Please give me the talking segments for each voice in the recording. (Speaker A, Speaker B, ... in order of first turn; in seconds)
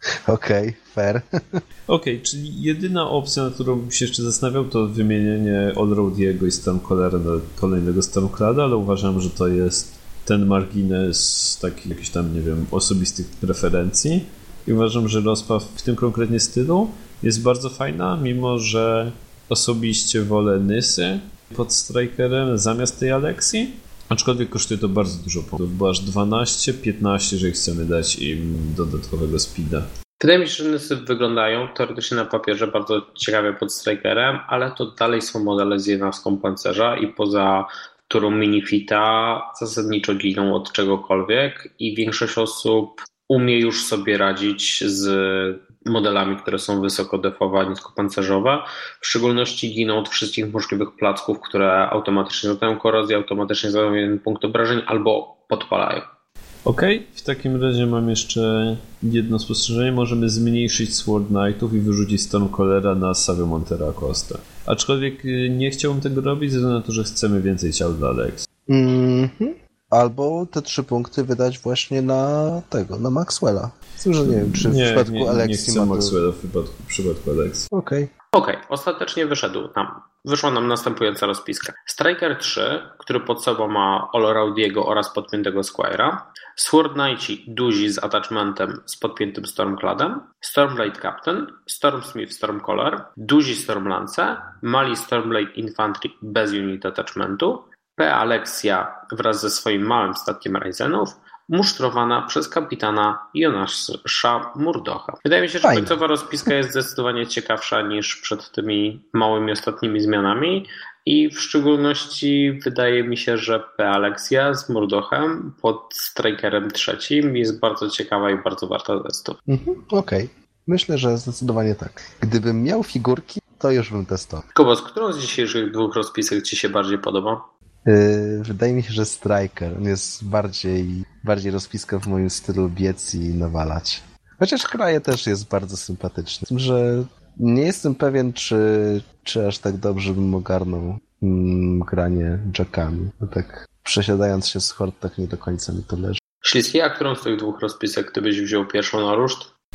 Speaker A: 0.3-1.6, 68.7-76.2, 77.7-78.1, 105.6-106.0, 119.5-124.4, 127.8-146.2
Speaker B: 1.9-29.9, 56.6-68.5, 74.2-77.7
Speaker C: 30.2-56.1, 78.3-119.4, 124.5-127.4, 146.4-149.5